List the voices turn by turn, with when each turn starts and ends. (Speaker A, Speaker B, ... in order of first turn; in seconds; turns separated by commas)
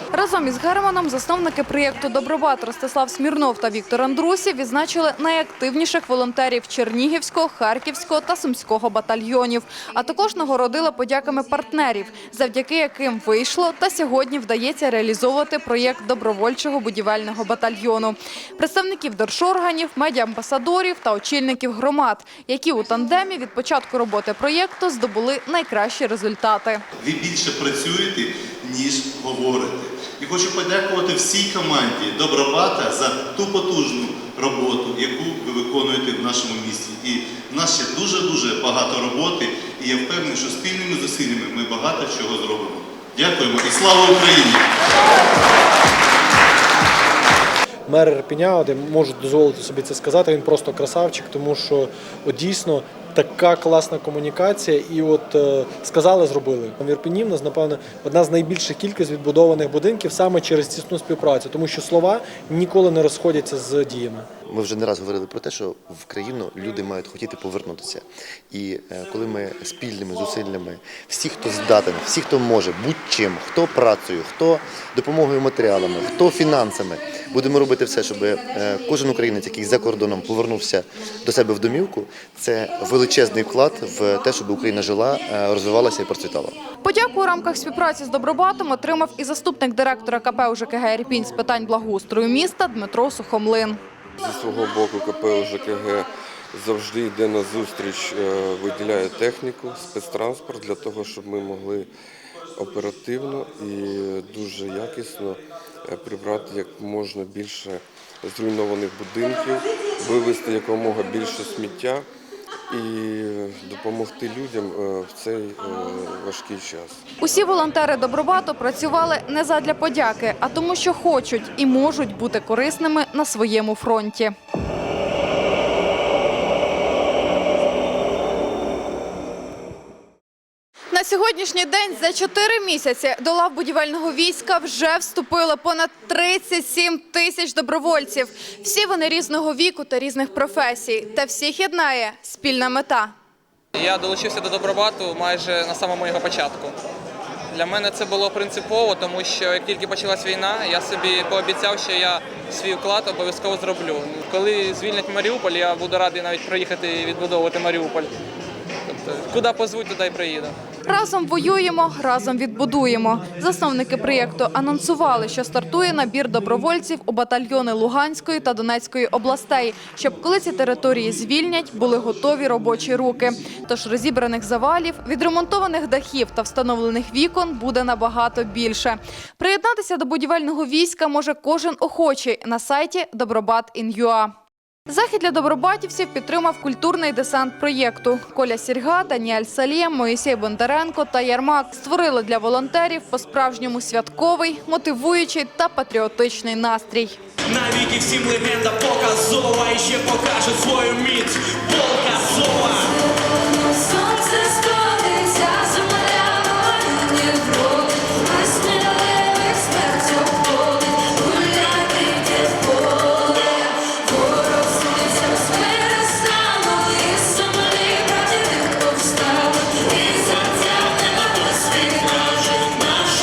Speaker A: 0.1-26.8, Speaker B: 27.0-44.7, Speaker C: 47.9-64.3, Speaker D: 64.5-86.6, Speaker A: 86.8-93.8, Speaker E: 94.2-101.9, Speaker E: 102.5-112.1, Speaker E: 112.7-117.0, Speaker A: 117.2-124.3, Speaker A: 130.9-143.1, Speaker F: 143.8-146.8, Speaker F: 147.5-158.1, Speaker F: 158.9-160.6, Speaker A: 160.9-184.3, Speaker A: 184.9-197.2, Speaker G: 197.5-202.9, Speaker A: 203.5-222.1